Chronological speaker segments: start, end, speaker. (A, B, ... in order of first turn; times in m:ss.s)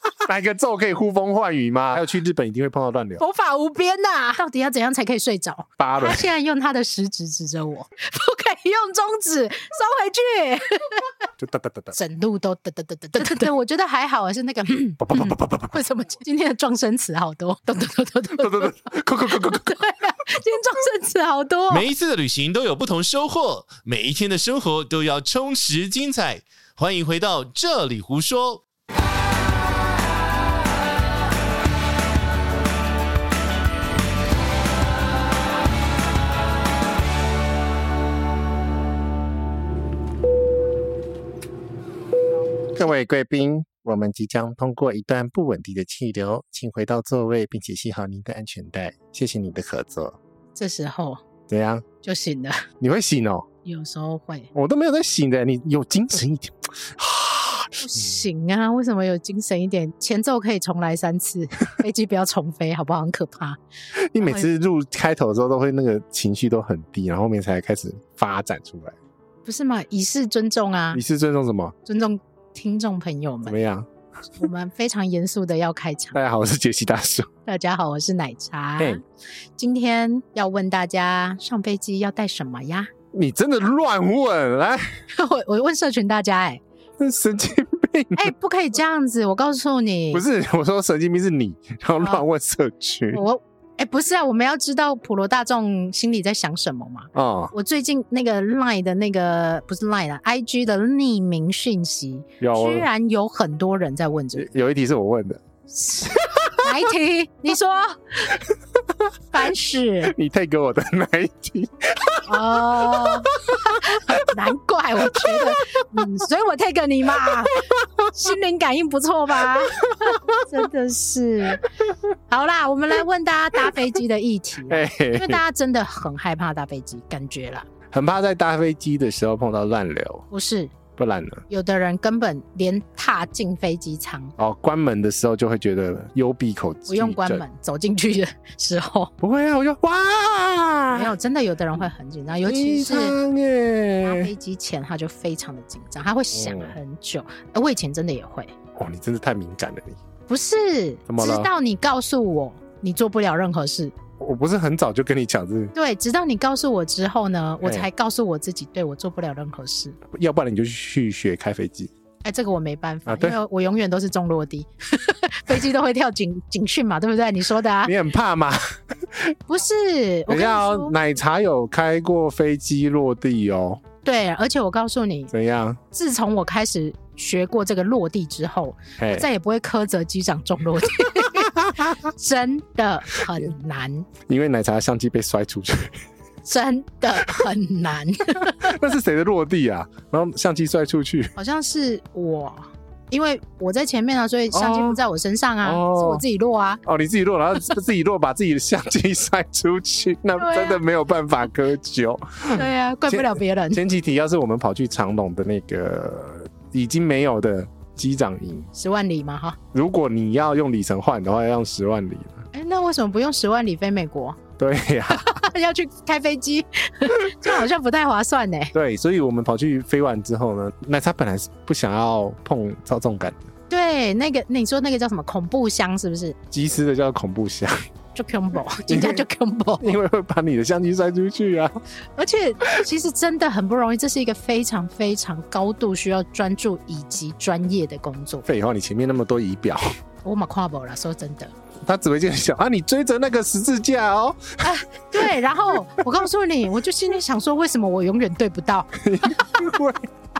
0:00.2-0:03.2 A
0:03.2-0:11.1 B
0:05.8-0:06.3 A
0:11.4-0:12.0 A
0:11.9-0:21.8 B
0:15.0-0:15.8 A
0:18.3-0:19.8 A
0:21.7-0:28.6 C
0:42.7-0:50.2 A
0:50.5-0:51.2 B
0:51.5-0:51.8 A
0:52.0-0:52.7 B
0:52.8-0:53.5 A
0:53.6-0:54.5 B
0:54.5-0:58.1 A
0:57.8-1:03.6 B
1:04.0-1:09.0 A
1:04.2-1:04.4 B
1:09.4-1:11.0 B
1:10.9-1:11.8 A
1:11.9-1:13.6 B
1:13.4-1:13.9 A
1:14.4-1:16.2 B
1:16.1-1:17.3 A
1:17.4-1:19.0 B
1:19.6-1:22.9 B
1:23.1-1:25.0 A
1:25.1-1:26.6 B
1:27.0-1:28.3 A
1:28.1-1:30.2 B
1:30.1-1:33.2 A
1:33.1-1:44.5 B
1:37.1-1:37.5 A
1:42.4-1:42.9 A
1:44.3-1:45.4 A
1:45.7-1:48.4 B
1:49.3-1:50.1 B
1:50.0-1:54.2 A
1:52.2-2:01.6 B
1:55.0-1:55.7 A
1:59.9-2:00.4 A
2:02.3-2:07.7 B
2:04.7-2:05.4 A
2:07.9-2:10.2 A
2:10.3-2:10.7 B
2:11.0-2:11.4 A
2:11.5-2:14.3 B
2:14.4-2:17.4 A
2:16.9-2:19.1 B
2:19.2-2:21.1 A
2:20.9-2:23.2 B
2:22.4-2:24.3 A
2:24.0-2:28.5 B
2:26.3-2:26.7 A
2:28.8-2:30.0 A
2:30.3-2:33.9 B
2:31.1-2:31.5 A
2:34.2-2:35.7 A
2:35.8-2:40.0 B
2:40.1-2:41.9 A
2:42.2-2:47.9 B
2:43.1-2:43.4 A
2:47.8-2:49.4 A
2:49.5-2:50.9 B
2:50.3-2:53.8 A
2:54.0-2:55.3 B
2:55.3-2:55.8 A
2:55.9-3:04.1 B
2:59.0-2:59.3 A
3:04.2-3:06.0 A
3:06.4-3:08.6 B
3:08.5-3:11.3 A
3:11.4-3:16.8 B
3:14.5-3:15.0 A
3:15.6-3:16.2 A
3:16.8-3:28.7 A
3:20.4-3:20.8 B
3:22.5-3:23.8 B
3:28.8-3:29.6 B
3:29.7-3:32.4 A
3:32.5-3:34.4 B
3:34.6-3:35.4 A
3:35.1-3:38.7 B
3:38.7-3:43.4 A
3:43.7-3:46.4 B
3:46.5-3:47.8 A
3:48.2-3:49.9 B
3:48.9-3:49.2 A
3:49.8-3:51.8 A
3:52.2-3:58.4 B
3:58.4-3:59.9 A
4:00.2-4:01.5 B
4:01.8-4:04.8 A
4:04.6-4:09.4 B
4:09.0-4:10.1 A